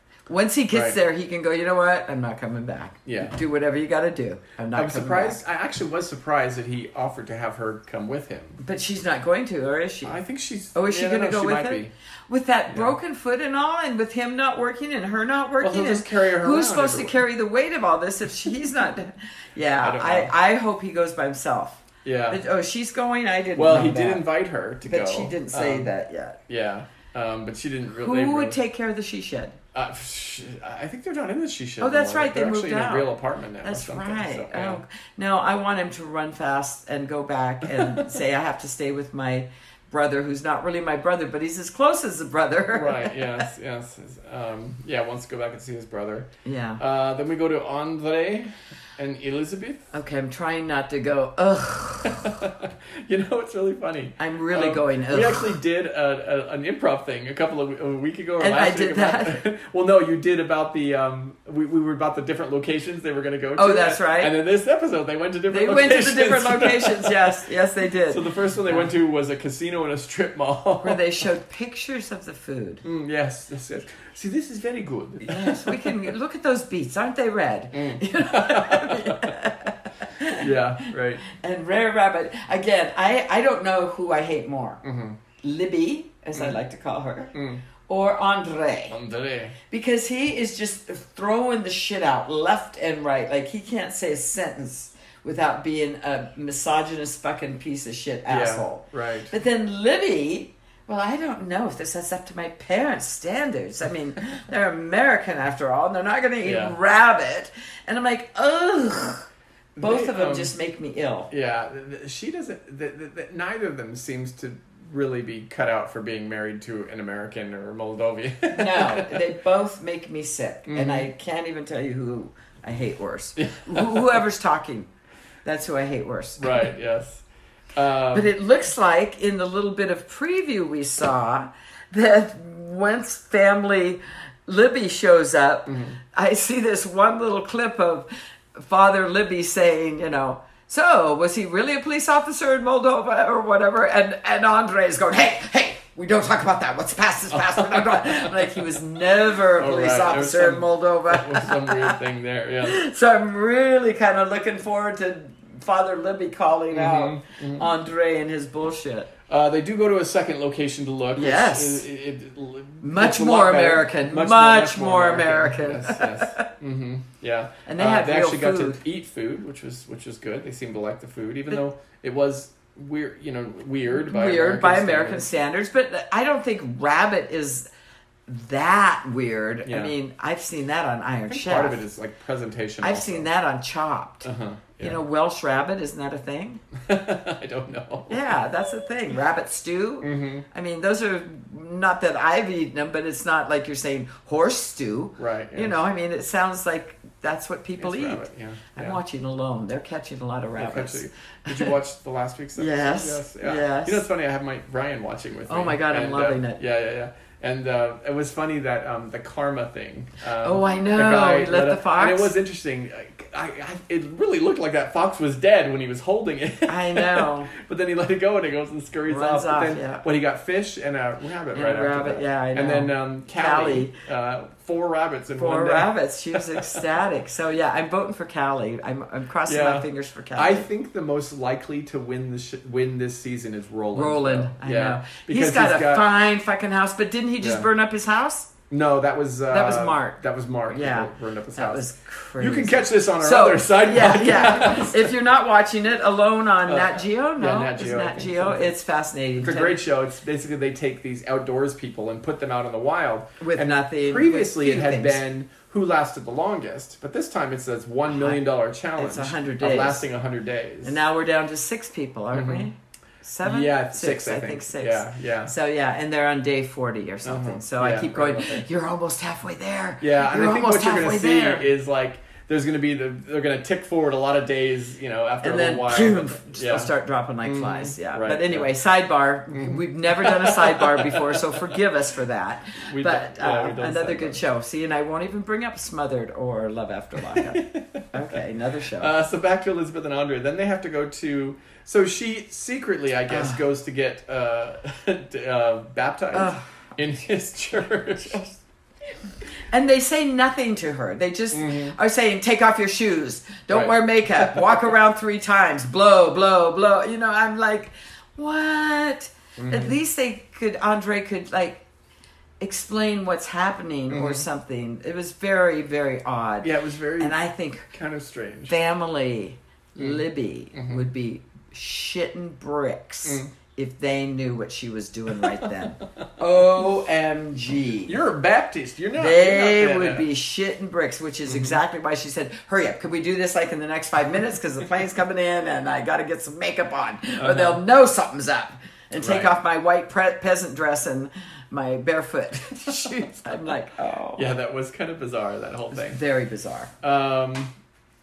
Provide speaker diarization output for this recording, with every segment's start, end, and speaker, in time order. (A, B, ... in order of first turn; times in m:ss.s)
0:00.3-0:05.4 A
0:00.7-0:01.0 B
0:03.1-0:03.4 B
0:04.8-0:08.6 B
0:08.6-0:10.2 A
0:10.0-0:11.9 B
0:10.7-0:24.3 A
0:12.7-0:12.9 B
0:15.6-0:17.2 B
0:19.8-0:20.3 B
0:22.0-0:22.4 B
0:23.6-0:25.9 B
0:24.8-0:26.4 A
0:26.5-0:28.6 B
0:27.9-0:29.6 A
0:29.7-0:34.8 B
0:31.8-0:43.4 A
0:37.7-0:38.0 B
0:42.7-0:49.9 B
0:46.4-0:46.8 A
0:49.9-0:52.4 A
0:52.0-1:07.5 B
0:54.2-0:55.6 A
0:58.4-0:59.4 A
1:03.6-1:04.3 A
1:05.5-1:08.9 A
1:08.1-1:11.2 B
1:10.8-1:12.8 A
1:12.8-1:16.1 B
1:15.2-1:24.8 A
1:17.7-1:19.4 B
1:20.4-1:21.2 B
1:24.8-1:25.2 B
1:25.4-1:27.4 A
1:27.3-1:27.6 B
1:27.9-1:29.0 A
1:28.9-1:29.6 B
1:29.7-1:49.3 A
1:38.3-1:39.3 B
1:46.4-1:46.8 B
1:49.8-1:50.5 B
1:49.8-1:51.3 A
1:51.3-1:59.2 B
1:58.5-2:04.9 A
2:00.7-2:01.1 B
2:03.4-2:04.2 B
2:05.4-2:06.7 A
2:06.4-2:08.3 B
2:08.1-2:32.0 A
2:15.7-2:16.0 B
2:27.3-2:28.6 B
2:29.6-2:32.8 B
2:32.6-2:39.1 A
2:36.7-2:37.7 B
2:39.3-2:55.3 B
2:41.2-2:41.9 A
2:42.8-2:46.5 A
2:47.7-2:48.8 A
2:53.9-2:57.7 A
2:58.3-3:01.8 A
2:59.6-2:59.9 B
3:01.3-3:03.3 B
3:02.8-3:04.3 A
3:04.2-3:05.0 B
3:04.8-3:06.6 A
3:06.8-3:08.3 B
3:08.1-3:21.7 A
3:10.0-3:10.4 B
3:15.2-3:15.8 B
3:17.8-3:19.0 B
3:20.6-3:46.8 B
3:22.6-3:24.0 A
3:25.5-3:26.6 A
3:30.4-3:32.3 A
3:36.7-3:37.5 A
3:39.1-3:40.0 A
3:41.5-3:44.0 A
3:45.4-3:50.7 A
3:49.5-3:56.1 B
3:53.9-3:58.5 A
3:57.4-3:57.7 B
3:58.7-4:01.9 B
3:59.5-4:09.8 A
4:02.4-4:05.1 B
4:06.7-4:08.7 B
4:09.4-4:21.0 B
4:13.4-4:15.2 A
4:18.1-4:18.4 A
4:19.0-4:20.0 A
4:20.8-4:31.7 A
4:22.3-4:22.7 B
4:23.4-4:25.5 B
4:27.2-4:28.7 B
4:30.0-4:36.9 B
4:35.4-4:49.1 A
4:37.4-4:38.7 B
4:39.5-4:41.7 B
4:42.8-4:44.4 B
4:47.3-4:48.4 B
4:49.0-4:58.4 B
4:53.3-4:53.6 A
4:56.3-4:56.6 A
4:58.2-4:58.5 A
4:59.7-5:11.8 A
5:01.5-5:02.0 B
5:03.7-5:04.9 B
5:09.6-5:10.0 B
5:12.6-5:17.9 A
5:14.1-5:14.5 B
5:16.6-5:17.4 B
5:17.9-5:18.8 B
5:18.7-5:28.2 A
5:20.0-5:21.1 B
5:23.2-5:23.5 B
5:25.4-5:25.8 B
5:28.1-5:30.3 B
5:29.2-5:44.5 A
5:31.5-5:31.8 B
5:37.4-5:37.8 B
5:39.2-5:39.6 B
5:44.4-5:46.2 B
5:45.9-5:46.9 A
5:47.0-5:47.7 B